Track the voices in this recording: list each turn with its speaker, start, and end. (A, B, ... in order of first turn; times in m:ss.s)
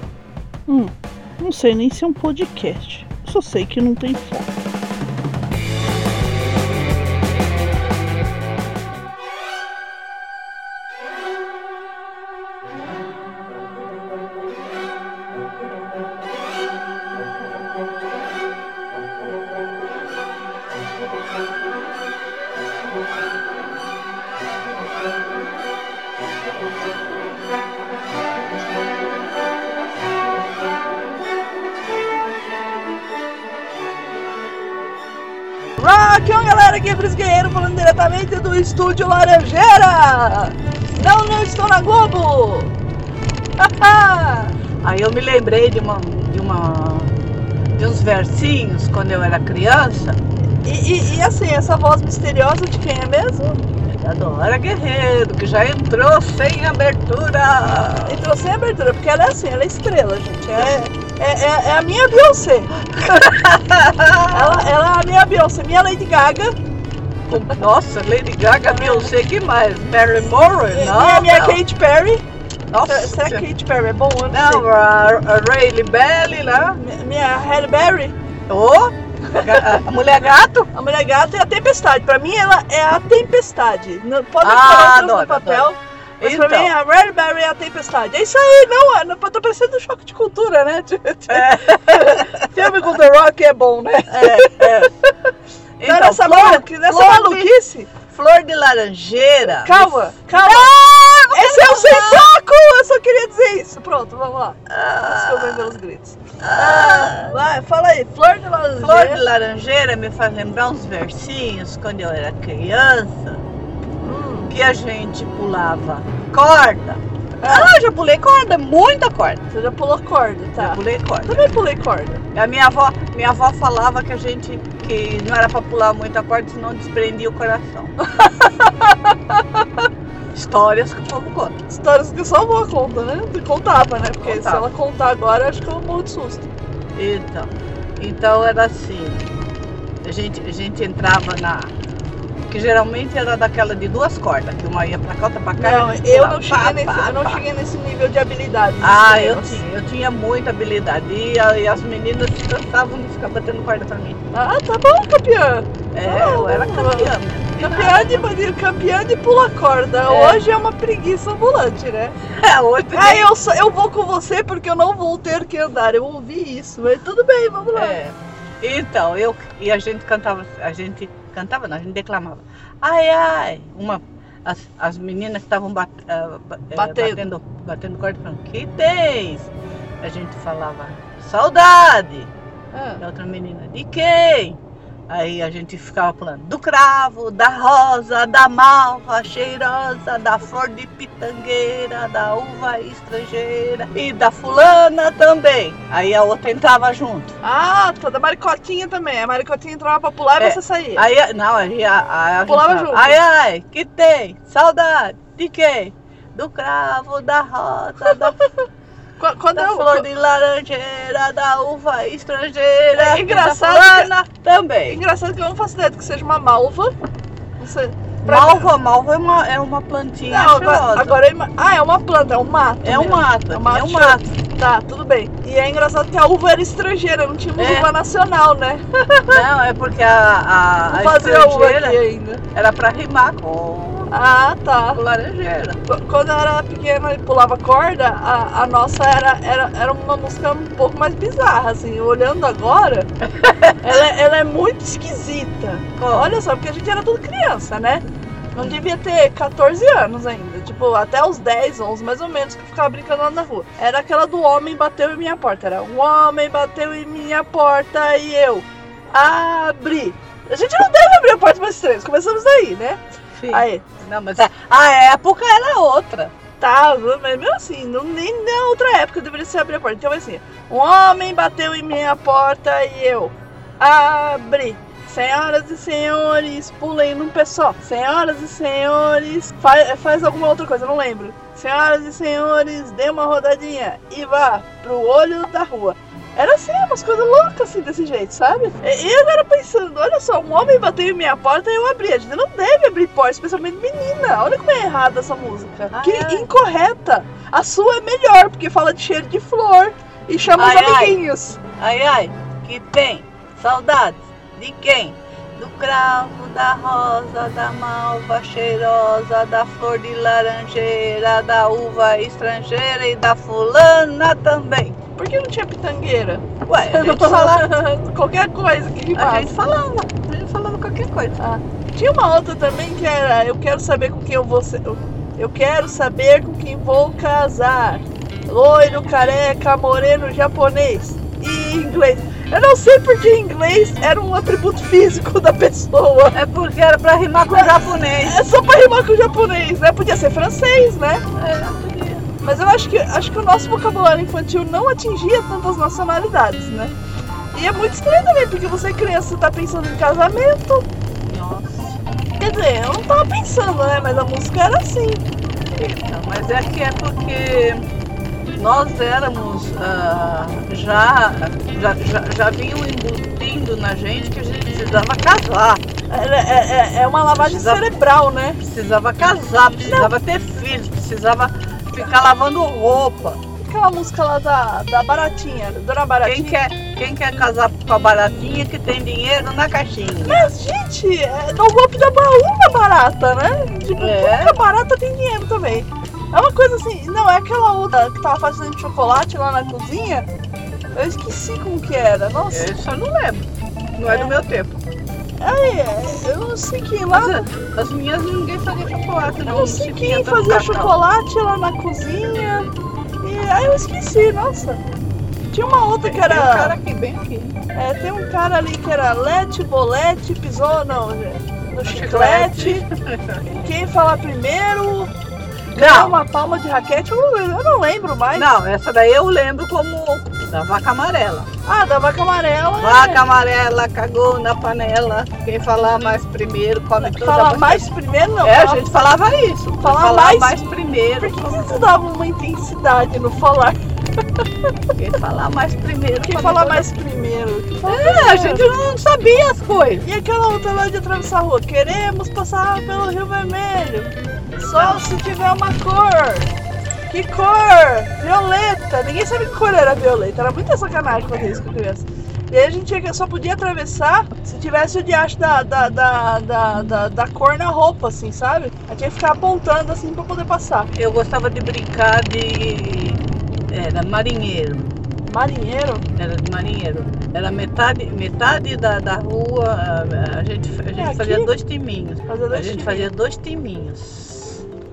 0:00.7-0:04.5 A
0:35.8-0:42.7 A
0:43.6-0:44.6 A
0:44.8-0:47.1 B
0:47.7-0:50.2 B
0:50.6-0:53.6 A
0:53.9-0:58.2 B
0:58.0-1:03.0 A
1:03.0-1:04.6 B
1:04.3-1:06.5 A
1:07.3-1:11.6 B
1:08.7-1:09.1 A
1:10.7-1:12.2 A
1:12.7-1:13.4 B
1:12.9-1:14.6 A
1:14.3-1:16.8 B
1:16.8-1:18.1 A
1:18.5-1:20.7 B
1:20.7-1:34.9 A
1:24.4-1:26.7 B
1:31.3-1:32.9 B
1:34.1-1:34.9 B
1:35.8-1:37.5 B
1:35.8-1:37.9 A
1:38.1-1:42.2 B
1:39.5-1:40.7 A
1:41.3-1:49.2 A
1:44.7-1:45.8 B
1:46.4-1:47.3 B
1:48.8-1:53.4 B
1:54.0-1:54.5 A
1:54.5-1:59.4 B
1:57.4-1:57.7 A
1:59.5-2:02.2 A
2:00.6-2:01.4 B
2:02.3-2:07.9 B
2:08.0-2:09.8 A
2:10.3-2:11.5 B
2:11.7-2:16.5 A
2:14.2-2:14.6 B
2:17.0-2:19.3 B
2:20.0-2:21.7 B
2:22.5-2:27.4 B
2:25.6-2:29.6 A
2:28.8-2:34.2 B
2:34.3-2:42.2 A
2:35.9-2:38.2 B
2:40.1-2:40.4 B
2:42.3-2:43.3 B
2:42.9-2:48.0 A
2:47.7-2:59.5 B
2:56.7-2:57.2 A
3:00.0-3:02.3 B
3:02.7-3:03.0 A
3:03.0-3:04.6 B
3:05.1-3:17.3 B
3:17.4-3:21.0 A
3:20.4-3:28.4 B
3:22.4-3:23.2 A
3:28.0-3:28.4 A
3:29.2-3:30.0 A
3:29.5-3:35.0 B
3:32.9-3:34.1 A
3:34.9-3:36.9 A
3:37.6-3:38.7 A
3:38.2-3:41.2 B
3:40.3-3:49.4 A
3:42.8-3:44.2 B
3:47.6-3:47.9 B
3:49.3-3:52.0 B
3:50.9-3:52.4 A
3:52.5-3:54.1 B
3:54.1-3:55.0 A
3:54.9-3:55.8 B
3:55.9-4:03.1 A
4:03.4-4:03.9 B
4:03.8-4:08.0 A
4:06.0-4:06.4 B
4:08.5-4:18.6 A
4:19.3-4:23.0 A
4:23.4-4:26.3 B
4:23.5-4:23.8 A
4:26.6-5:01.6 A
4:55.9-4:56.5 B
5:00.6-5:01.2 B
5:01.8-5:15.0 B
5:15.2-5:19.5 A
5:16.7-5:17.8 B
5:19.1-5:21.4 B
5:21.4-5:36.4 A
5:36.3-5:38.4 B
5:37.5-5:41.2 A
5:41.3-5:42.2 B
5:42.4-5:46.9 A
5:47.5-5:50.8 A
5:51.3-5:51.8 B
5:52.4-5:55.2 A
5:55.7-5:57.9 B
5:58.6-6:05.8 B
6:06.1-6:08.6 A
6:07.4-6:07.8 B
6:08.6-6:13.4 B
6:09.8-6:10.1 A
6:13.6-6:16.6 A
6:16.2-6:20.5 B
6:20.2-6:30.3 A
6:24.0-6:24.6 B
6:30.9-6:32.7 A
6:32.5-6:34.8 B
6:34.1-6:34.4 A
6:35.4-6:37.4 A
6:37.1-6:41.0 B
6:39.4-6:44.8 A
6:45.5-6:46.7 A
6:46.1-6:47.6 B
6:47.7-6:52.8 A
6:51.8-6:53.4 B
6:53.4-6:55.1 A
6:55.7-6:58.5 A
6:55.7-6:56.2 B
6:58.3-7:01.5 B
7:01.6-7:03.2 A
7:02.8-7:07.8 B
7:07.0-7:08.9 A
7:08.4-7:11.8 B
7:09.8-7:10.6 A
7:11.2-7:13.8 A
7:15.0-7:16.8 B
7:16.2-7:18.6 A
7:17.8-7:20.0 B
7:20.0-7:26.5 A
7:24.7-7:25.1 B
7:27.1-7:40.9 A
7:40.9-7:44.9 B
7:45.3-7:46.0 A
7:46.1-7:54.6 B
7:51.0-7:51.5 A
7:52.3-7:53.1 A